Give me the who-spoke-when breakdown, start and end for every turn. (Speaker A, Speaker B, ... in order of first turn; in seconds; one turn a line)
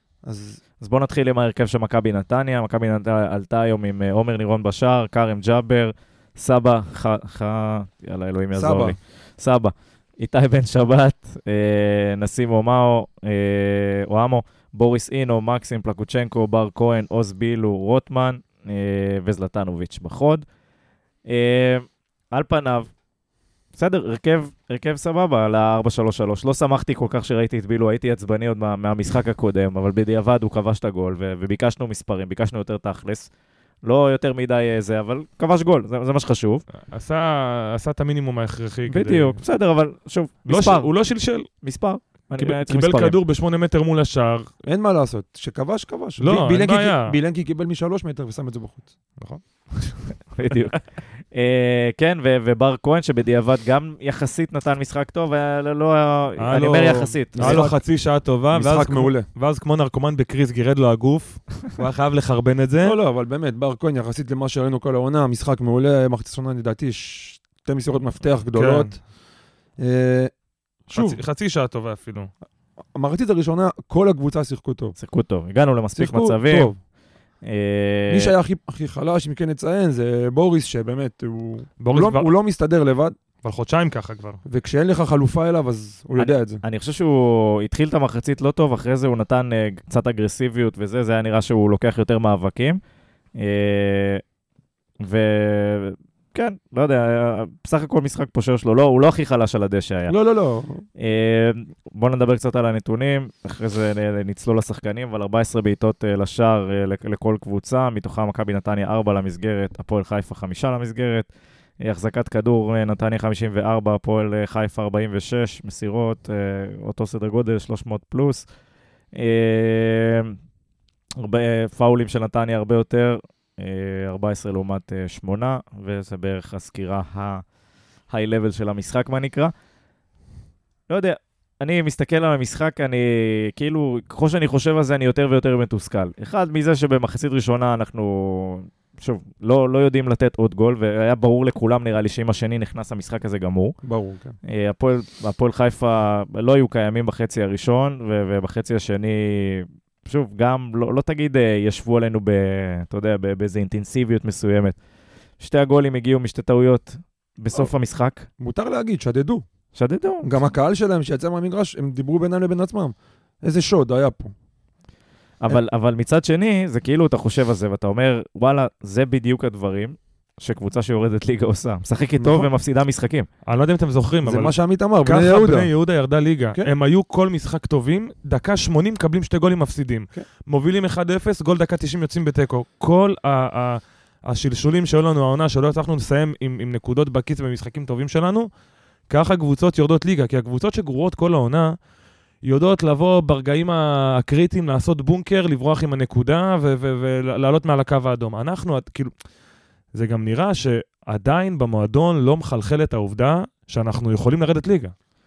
Speaker A: 0.2-0.6
Speaker B: 0.8-20.4
Speaker A: 8.5-9.0
Speaker B: 21.3-22.9
Speaker B: 23.8-33.3
Speaker B: 33.8-36.6
Speaker C: 36.8-39.4
Speaker B: 38.9-40.9
Speaker C: 40.5-41.5
Speaker B: 41.6-43.2
Speaker C: 42.4-44.5
Speaker A: 44.6-48.9
Speaker C: 46.2-47.2
Speaker C: 49.2-50.0
Speaker B: 50.3-57.6
Speaker C: 56.4-63.0
Speaker A: 57.4-57.8
Speaker A: 58.5-59.3
Speaker A: 62.8-68.9
Speaker C: 68.5-68.9
Speaker A: 69.8-70.3
Speaker A: 70.9-71.2
Speaker C: 70.9-72.3
Speaker A: 73.0-75.0
Speaker B: 75.0-76.7
Speaker A: 76.0-76.8
Speaker B: 77.4-78.3
Speaker A: 78.1-83.2
Speaker C: 81.8-82.3
Speaker C: 83.4-84.4
Speaker A: 84.5-86.6
Speaker B: 86.2-92.8
Speaker B: 93.4-94.2
Speaker B: 95.0-100.2
Speaker A: 100.1-100.8
Speaker B: 101.0-111.3
Speaker B: 111.8-118.5
Speaker B: 119.2-120.4
Speaker B: 121.2-127.4
Speaker B: 128.1-129.5
Speaker B: 130.9-143.8
Speaker A: 143.8-144.3
Speaker B: 144.4-154.8
Speaker B: 155.4-158.3
Speaker A: 158.4-159.4
Speaker B: 159.8-160.4
Speaker A: 160.2-164.3
Speaker B: 165.4-173.3
Speaker A: 172.2-172.5
Speaker C: 173.5-174.5
Speaker A: 174.2-175.7
Speaker C: 175.1-188.5
Speaker C: 189.1-191.8
Speaker C: 192.4-199.1
Speaker C: 199.9-204.9